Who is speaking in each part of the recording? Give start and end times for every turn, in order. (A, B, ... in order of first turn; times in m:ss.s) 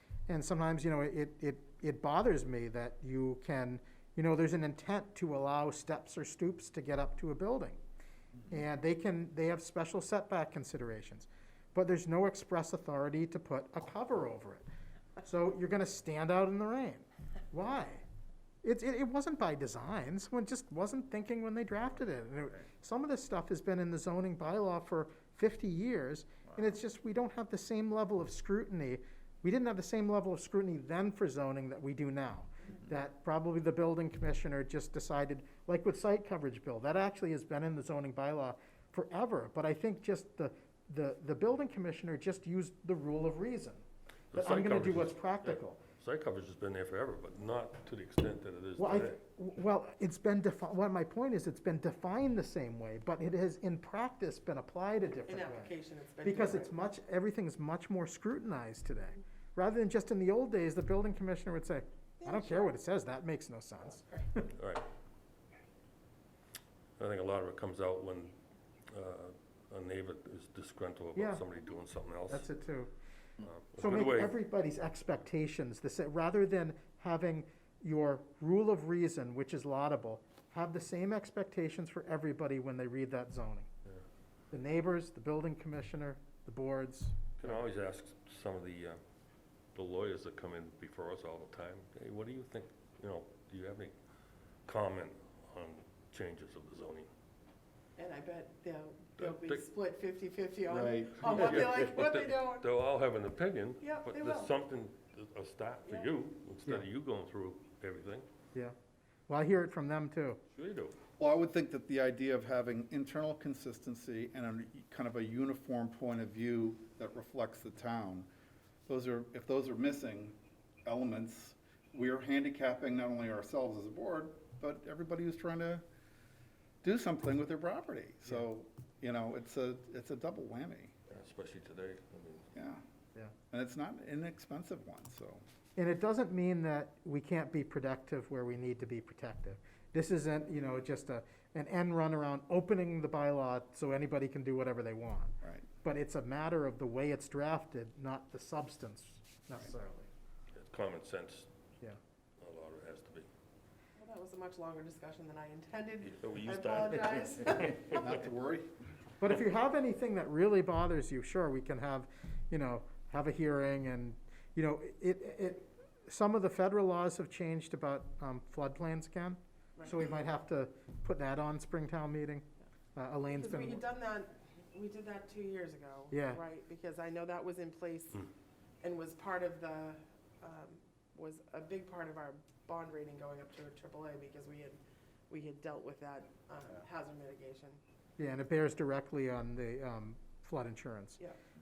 0:00.3-0:07.8 A
0:08.5-0:14.7 A
0:15.2-0:18.0 A
0:18.6-0:45.8 A
0:44.3-0:49.2 B
0:48.8-1:04.5 A
0:55.3-0:56.7 C
1:02.2-1:02.7 C
1:04.6-1:04.8 B
1:07.0-1:08.4 B
1:08.9-1:12.5 B
1:11.2-1:11.5 A
1:12.3-1:12.9 A
1:13.4-1:14.4 B
1:13.8-1:23.7 A
1:24.5-1:27.6 A
1:27.4-1:29.0 B
1:29.8-1:34.0 B
1:34.7-1:37.1 B
1:38.0-1:42.7 C
1:39.2-1:39.6 B
1:40.7-1:41.7 D
1:41.3-1:48.3 B
1:43.8-1:44.5 C
1:49.3-1:50.4 A
1:50.5-1:51.0 B
1:51.2-1:58.3 D
1:58.9-2:05.8 D
2:06.8-2:10.9 D
2:11.1-2:12.5 B
2:12.6-2:12.8 D
2:13.5-2:15.4 D
2:15.8-2:30.1 A
2:25.4-2:25.7 D
2:30.5-2:31.5 B
2:32.4-2:33.3 B
2:34.0-2:38.2 C
2:36.1-2:37.9 B
2:37.9-2:38.7 D
2:39.2-2:53.8 A
2:49.8-2:50.1 C
2:53.3-2:58.3 C
2:56.1-2:56.4 A
2:58.8-3:07.8 C
3:08.2-3:11.2 A